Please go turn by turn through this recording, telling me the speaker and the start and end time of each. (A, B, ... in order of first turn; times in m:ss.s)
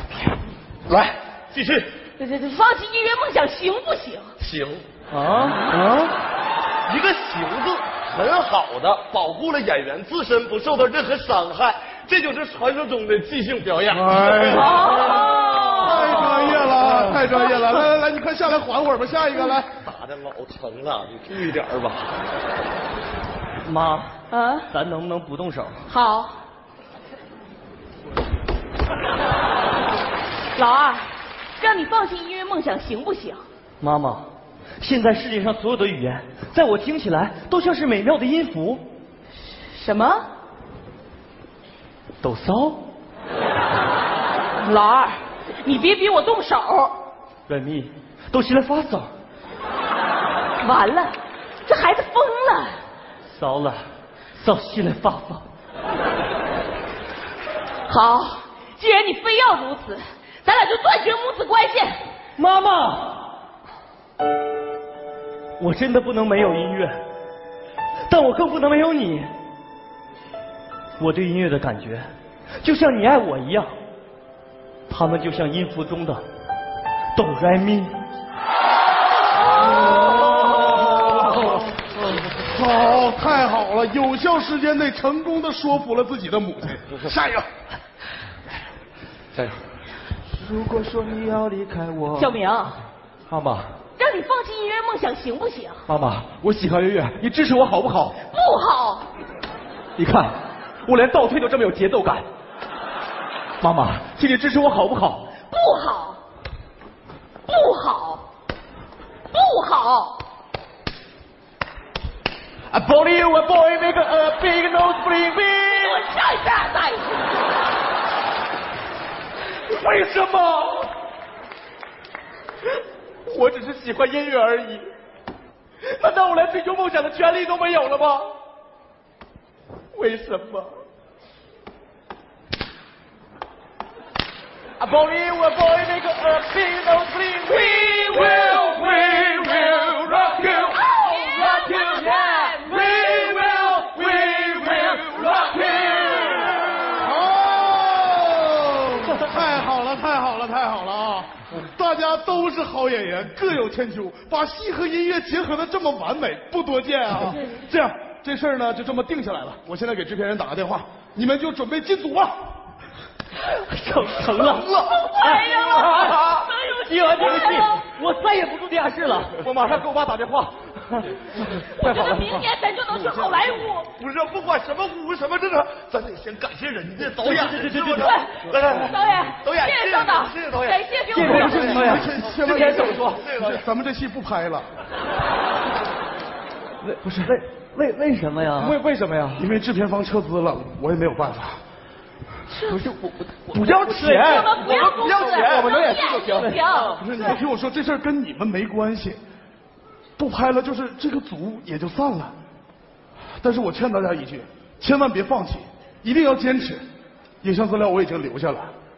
0:00.9-0:01.9 A
0:02.2-0:04.3 B
0:04.4-0:04.8 A
0:05.1-0:05.8 C
0:06.9-0:15.4 A
0:13.9-0:19.7 D
0:14.5-0:16.5 B
0:16.3-0:17.2 C
0:19.8-0:22.2 A
0:23.6-0:25.8 C
0:24.3-0:24.7 B
0:25.9-0:26.4 B
0:30.6-0:33.4 B
0:33.8-0:34.3 C
0:34.8-0:38.8 C
0:39.7-0:40.3 B
0:42.2-0:42.8 C
0:44.6-0:47.0 B
0:47.5-0:49.1 C
0:50.6-0:52.8 B
0:53.3-0:55.4 C
0:57.9-1:02.0 B
1:02.4-1:03.2 C
1:05.6-1:07.0 C
1:08.1-1:09.3 C
1:11.0-1:12.1 C
1:12.6-1:13.7 C
1:14.9-1:16.2 C
1:17.2-1:17.9 C
1:20.6-1:21.4 D
1:22.4-1:27.5 D
1:30.4-1:32.4 E
1:32.2-1:32.8 B
1:33.3-1:33.8 E
1:34.0-1:35.9 B
1:35.9-1:38.2 E
1:38.3-1:39.1 B
1:40.0-1:42.2 E
1:43.6-1:45.3 E
1:45.5-1:46.2 B
1:47.5-1:48.3 B
1:49.3-1:50.2 B
1:52.7-1:56.0 E
1:55.7-1:57.3 B
1:59.7-2:00.9 E
2:03.3-2:04.8 E
2:05.8-2:08.3 E
2:09.9-2:10.7 E
2:14.8-2:26.6 E
2:20.7-2:23.2 B
2:27.0-2:42.3 D
2:43.4-2:49.4 C
2:44.7-2:47.8 B
2:45.5-2:46.2 E
2:49.4-2:52.5 E
2:51.4-2:53.9 B
2:54.0-3:03.6 A
2:57.2-2:58.2 C
2:58.0-3:01.8 B
3:01.1-3:02.1 C
3:01.2-3:03.6 E
3:01.3-3:04.7 D
3:07.0-3:07.4 E
3:07.2-3:08.8 C
3:08.6-3:09.5 E
3:09.4-3:11.6 D
3:12.5-3:12.8 B
3:12.7-3:14.4 C
3:13.5-3:16.6 E
3:14.2-3:17.4 B
3:14.5-3:16.8 A
3:16.9-3:19.2 D
3:20.2-3:22.3 D
3:23.4-3:26.8 D
3:27.4-3:28.7 D